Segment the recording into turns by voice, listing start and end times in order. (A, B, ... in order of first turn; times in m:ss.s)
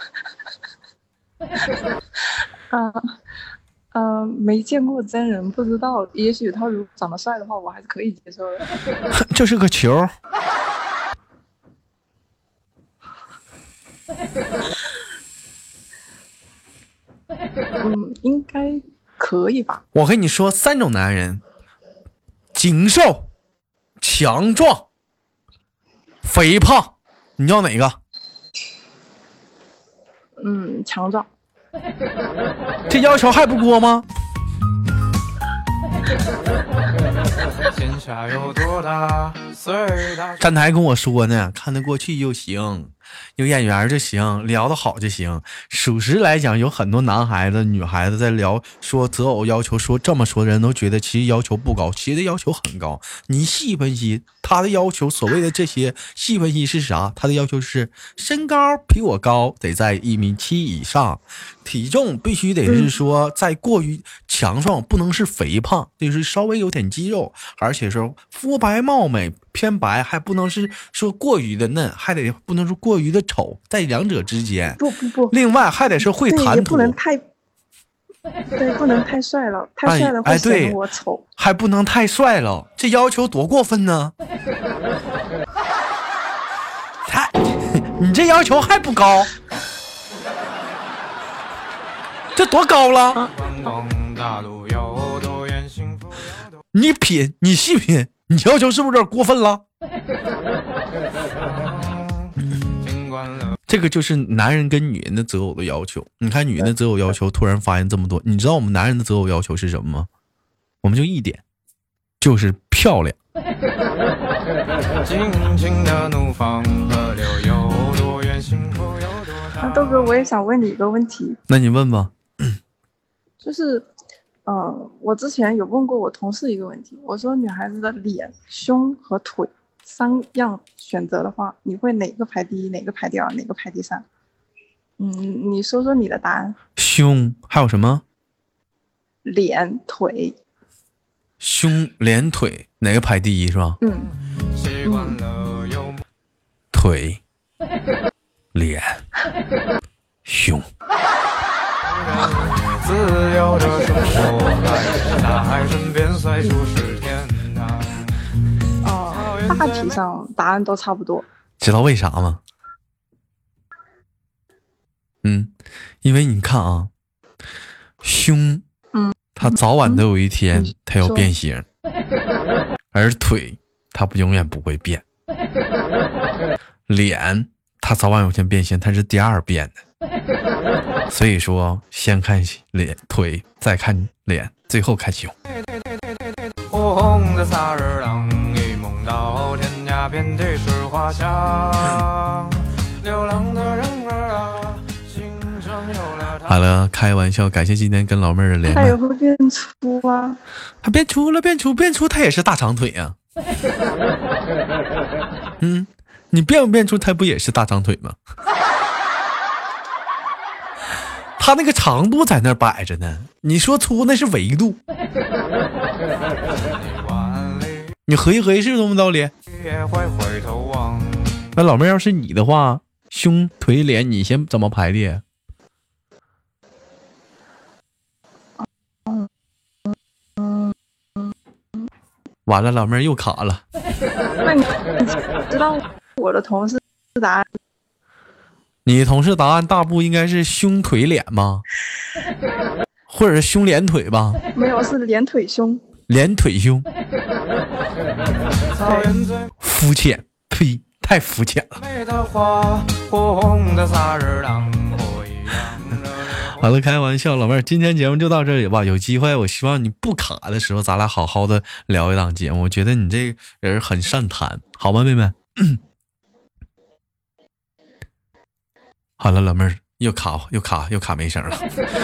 0:02.7-0:03.2 A
0:03.9-0:08.7 A
0:09.1-0:10.1 B
0:17.8-0:19.8 A
0:19.9-0:21.4 B
0:22.5-0:23.3 B
0:24.0-0:24.9 B
0:26.2-0:28.0 B
0:30.4-0:31.3 A
0:32.9-0:34.1 B
0:37.6-0:40.4 C
0:40.4-1:14.8 B
1:02.6-1:02.9 A
1:14.8-1:15.4 A
1:15.3-1:17.0 B
1:16.1-1:17.2 A
1:18.5-1:21.2 A
1:19.8-1:20.8 B
1:21.4-1:24.1 B
1:27.0-1:29.3 B
1:32.3-1:33.3 B
1:33.2-1:36.3 C
1:36.7-1:39.6 B
1:41.5-1:43.5 C
1:43.7-1:50.1 B
1:50.8-1:51.4 B
1:52.2-1:53.2 B
1:55.0-1:59.8 C
1:59.6-2:01.4 A
2:01.5-2:02.1 B
2:03.4-2:03.9 A
2:04.4-2:14.0 A
2:15.0-2:16.6 A
2:16.8-2:18.0 B
2:19.2-2:20.4 A
2:21.4-2:23.8 B
2:23.8-2:24.1 A
2:24.5-2:26.0 C
2:24.8-2:25.2 A
2:26.7-2:27.2 B
2:28.5-2:29.0 B
2:30.2-2:30.6 B
2:31.9-2:38.0 C
2:38.8-2:41.2 A
2:39.2-2:40.0 C
2:41.6-2:42.4 B
2:45.2-2:45.5 B
2:46.0-2:46.9 B
2:48.0-2:48.6 B
2:48.9-2:50.0 A
2:49.4-2:51.6 B
2:50.5-2:51.3 A
2:52.9-2:55.0 B
2:56.9-2:59.8 B
3:01.1-3:05.3 B
3:06.5-3:16.5 C
3:16.4-3:19.0 B
3:18.7-3:20.4 A
3:20.8-3:23.2 B
3:25.6-3:28.2 B
3:31.4-3:34.8 B
3:36.2-3:37.9 C
3:38.1-3:39.3 B
3:39.5-3:41.5 C
3:41.6-3:45.2 B
3:50.4-3:50.7 A
3:52.5-3:53.6 B
3:54.4-3:57.5 A
3:58.8-4:01.6 B
4:03.1-4:04.4 B
4:04.5-4:05.8 A
4:06.1-4:06.9 B
4:08.7-4:09.5 C
4:08.8-4:09.2 A
4:09.6-4:11.8 B
4:11.8-4:16.5 C
4:16.4-4:25.8 B
4:29.2-4:31.7 B